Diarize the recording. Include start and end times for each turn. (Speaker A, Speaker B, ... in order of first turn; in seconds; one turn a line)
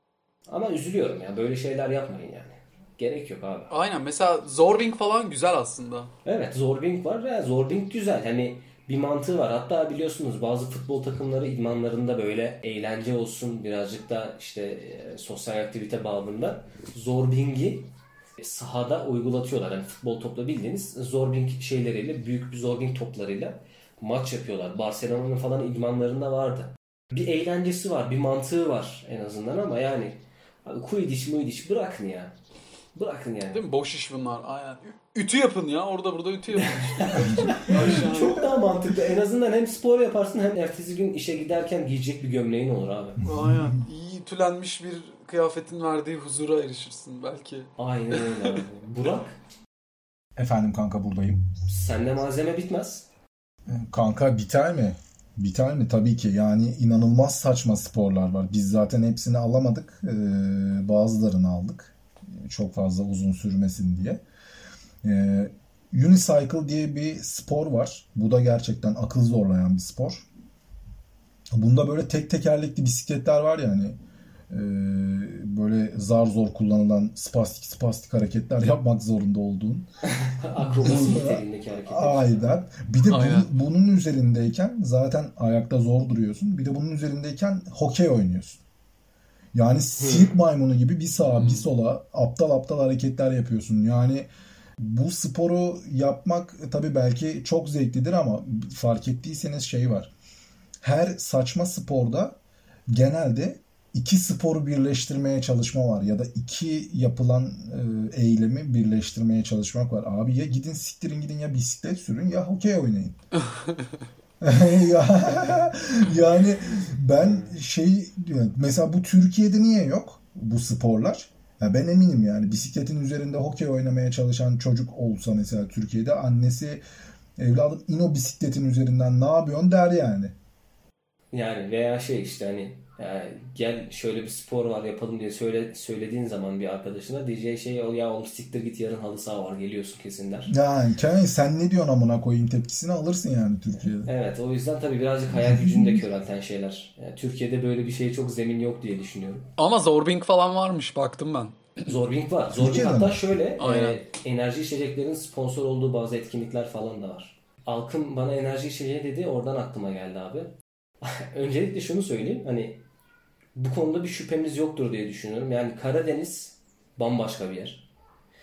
Speaker A: 0.5-3.7
Speaker B: 3.7-6.1
Speaker A: 6.2-32.4
Speaker A: 33.0-33.6
Speaker B: 33.5-38.6
Speaker A: 36.7-43.2
Speaker B: 43.2-48.6
Speaker C: 43.2-43.8
Speaker A: 47.8-49.4
Speaker C: 50.4-51.5
Speaker A: 51.7-53.1
Speaker C: 53.7-64.2
Speaker C: 65.0-70.3
Speaker C: 71.5-74.0
Speaker C: 74.5-79.9
Speaker A: 80.1-82.6
Speaker C: 80.8-88.6
Speaker B: 83.1-83.5
Speaker C: 89.5-94.3
Speaker A: 90.0-90.3
Speaker B: 91.2-91.7
Speaker C: 94.8-100.1
Speaker C: 100.8-102.4
Speaker C: 102.9-113.2
Speaker C: 114.4-126.8
Speaker A: 117.2-117.5
Speaker C: 127.4-130.3
Speaker A: 131.3-140.5
Speaker C: 140.5-144.1
Speaker A: 144.1-149.5
Speaker C: 145.5-146.0
Speaker B: 149.6-151.9
Speaker A: 151.9-162.8
Speaker C: 152.5-153.2
Speaker B: 153.6-154.0
Speaker A: 163.6-167.9